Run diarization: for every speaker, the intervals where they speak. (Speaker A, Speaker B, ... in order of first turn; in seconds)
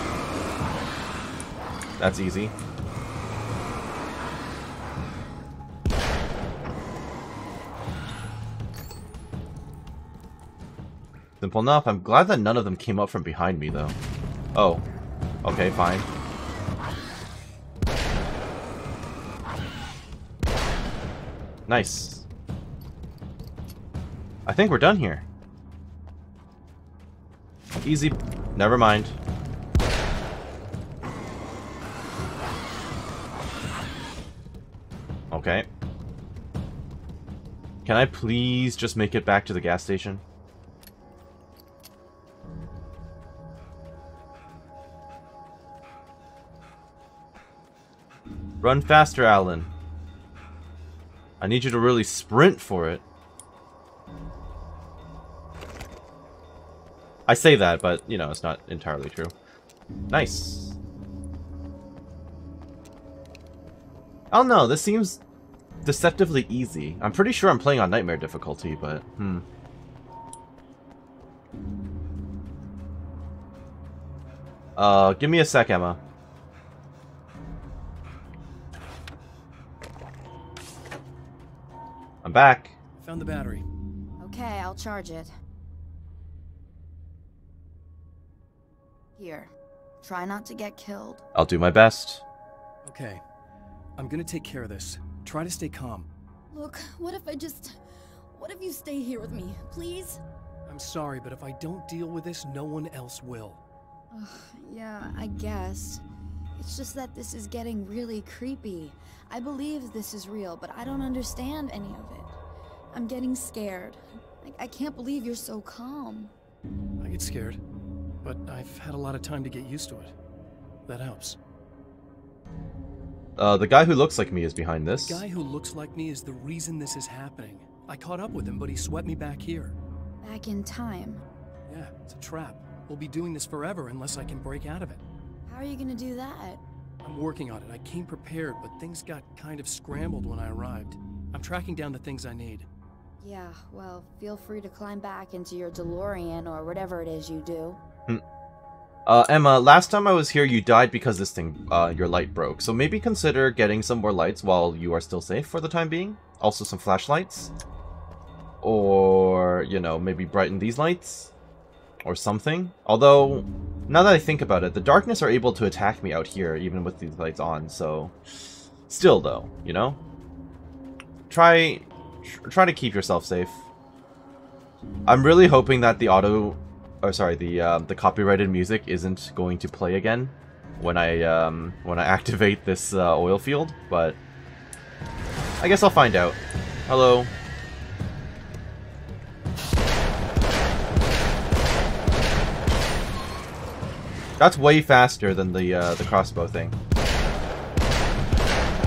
Speaker A: 2.0-2.5, 11.4-13.9, 14.5-14.8, 15.4-16.1, 21.7-22.2, 24.5-25.2, 27.8-29.2, 35.3-35.6, 37.8-40.2, 48.6-49.7, 51.4-53.0, 57.3-59.3, 60.1-60.8, 64.3-65.2, 65.8-69.4, 74.8-76.0, 82.2-82.8, 91.3-92.2, 123.4-125.2, 149.1-157.5, 158.6-161.3, 162.0-168.1, 168.9-170.0, 171.3-173.6, 175.1-184.2, 185.6-187.3, 194.4-196.7
Speaker B: 83.0-83.6, 92.8-93.2, 94.0-96.1, 100.7-103.6, 117.0-117.6, 118.2-120.1, 120.9-121.4, 124.9-129.8, 131.7-135.0, 137.0-142.7
Speaker C: 84.2-85.3, 89.2-91.2, 96.5-100.2, 104.1-106.0, 106.6-112.3, 112.9-116.3, 130.2-131.2, 135.5-136.6, 143.2-147.8